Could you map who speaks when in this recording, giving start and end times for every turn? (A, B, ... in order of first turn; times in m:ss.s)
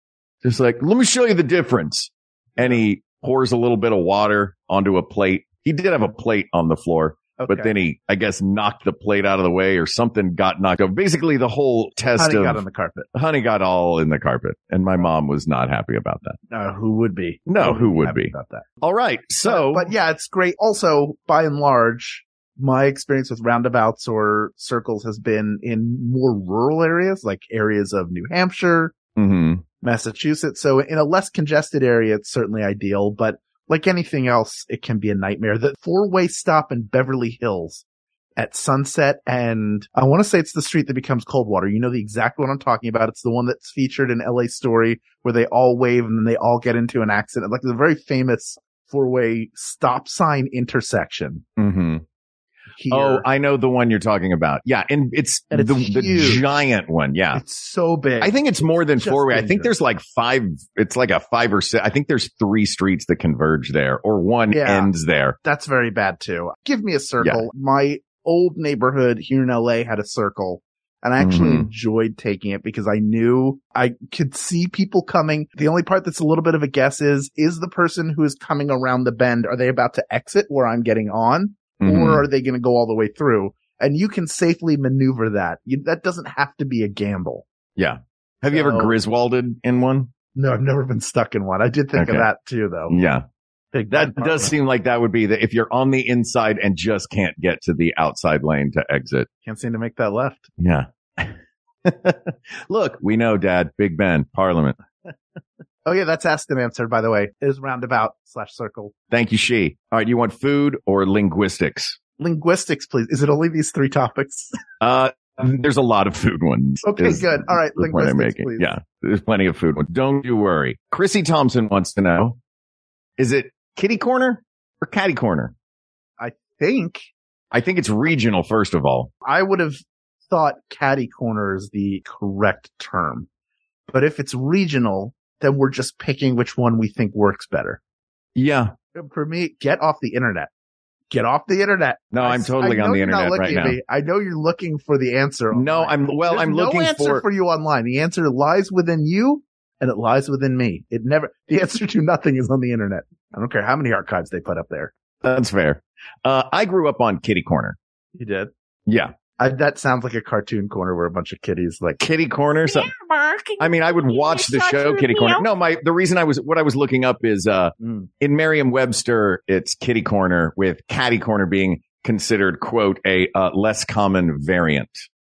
0:00.4-0:12.6 A
0:07.4-0:07.7 B
0:12.2-0:13.1 B
0:13.1-0:16.4 A
0:16.5-0:18.6 B
0:17.5-0:19.9 A
0:19.4-0:28.9 B
0:29.2-0:29.6 A
0:29.8-0:37.8 B
0:38.4-0:51.4 B
0:51.6-0:52.0 A
0:52.8-0:53.2 B
0:52.9-0:57.4 A
0:55.5-0:56.4 B
0:57.3-0:58.4 B
0:58.2-1:05.4 A
0:59.0-0:59.7 B
1:04.5-1:04.9 B
1:05.4-1:27.4 B
1:07.2-1:07.4 A
1:11.2-1:11.7 A
1:21.8-1:22.2 A
1:27.8-1:30.1 A
1:28.5-1:28.9 B
1:30.3-1:33.0 B
1:32.0-1:32.2 A
1:32.9-1:33.2 A
1:33.7-1:34.5 B
1:33.9-1:39.3 A
1:39.4-1:40.5 B
1:40.6-1:44.8 A
1:45.8-1:48.9 B
1:49.1-1:52.0 A
1:52.2-1:54.6 B
1:54.8-2:02.4 A
1:56.8-1:58.7 B
2:03.2-2:05.5 A
2:06.2-2:07.1 B
2:07.5-2:09.1 A
2:09.2-2:13.3 B
2:13.9-2:17.8 B
2:18.3-2:18.7 A
2:18.9-2:20.5 B
2:21.1-2:34.9 B
2:22.1-2:23.8 A
2:25.5-2:27.2 A
2:35.2-2:37.8 A
2:38.1-2:38.5 B
2:38.9-2:39.1 A
2:39.4-2:42.0 B
2:42.0-2:42.9 A
2:42.6-2:45.5 C
2:43.6-2:55.0 A
2:47.8-2:48.1 B